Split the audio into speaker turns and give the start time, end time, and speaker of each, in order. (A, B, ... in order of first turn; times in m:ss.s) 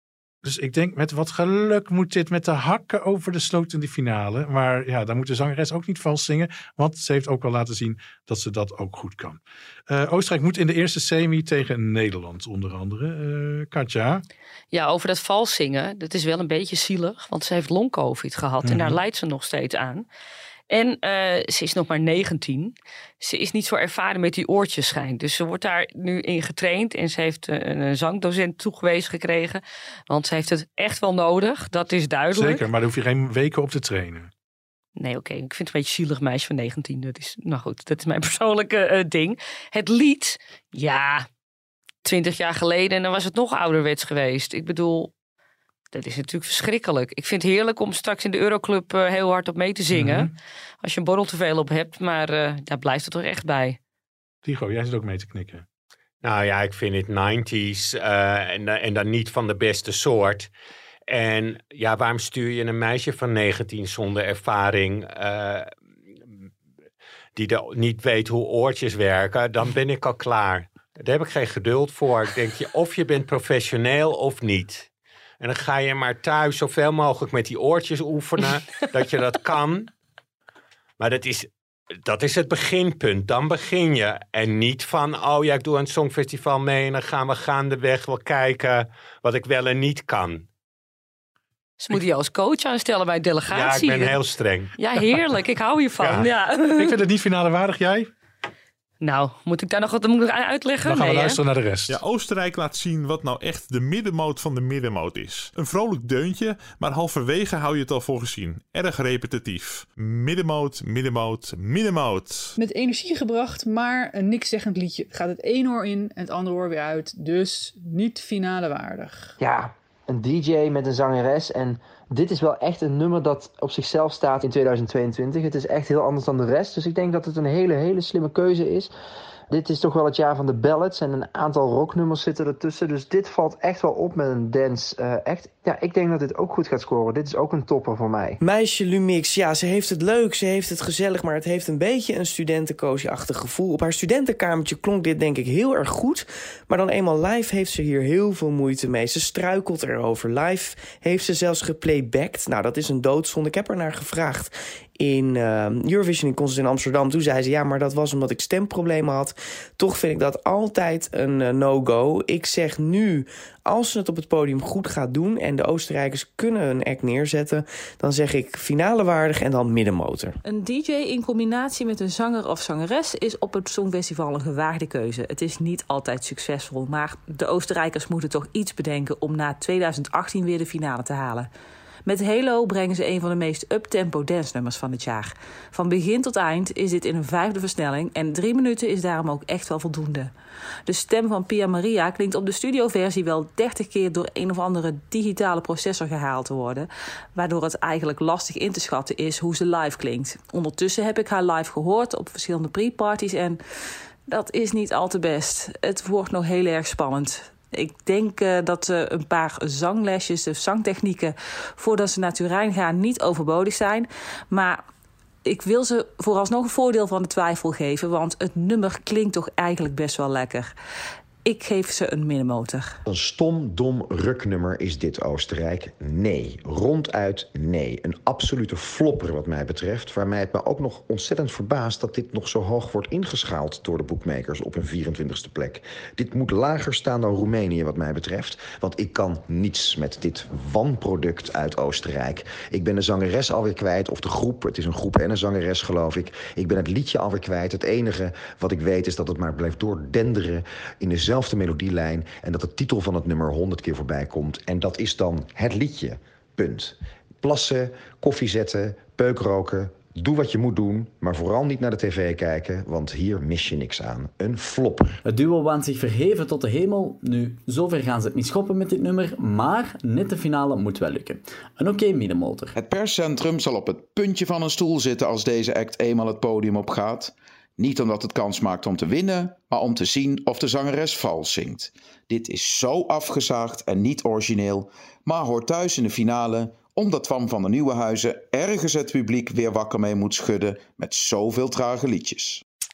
0:00.4-0:14.2 A
0:14.7-0:20.0 B
0:18.6-0:19.0 A
0:20.7-0:32.6 B
0:32.3-0:34.3 A
0:35.0-0:41.2 B
0:42.0-0:45.1 B
0:45.9-0:53.8 B
0:49.9-0:50.3 A
0:54.4-0:55.6 A
0:56.2-1:00.5 C
1:01.1-1:05.7 C
1:07.4-1:14.9 C
1:15.4-1:19.9 C
1:21.0-1:21.5 C
1:22.0-1:30.5 C
1:31.8-1:34.2 B
1:33.5-1:34.7 C
1:34.8-1:37.0 B
1:36.0-1:36.2 C
1:36.8-1:38.1 A
1:39.0-1:41.4 B
1:40.8-1:42.0 A
1:41.9-1:52.5 D
1:52.6-1:59.3 E
1:59.4-2:08.9 F
2:09.5-2:18.4 F
2:18.4-2:50.4 G
2:50.4-3:01.5 H
3:02.0-3:10.3 H
3:10.8-3:23.6 H
3:24.3-3:34.8 H
3:35.4-3:40.7 H
3:41.4-3:43.0 H
3:43.1-4:25.2 I
4:25.2-4:32.7 J
4:32.7-4:52.6 K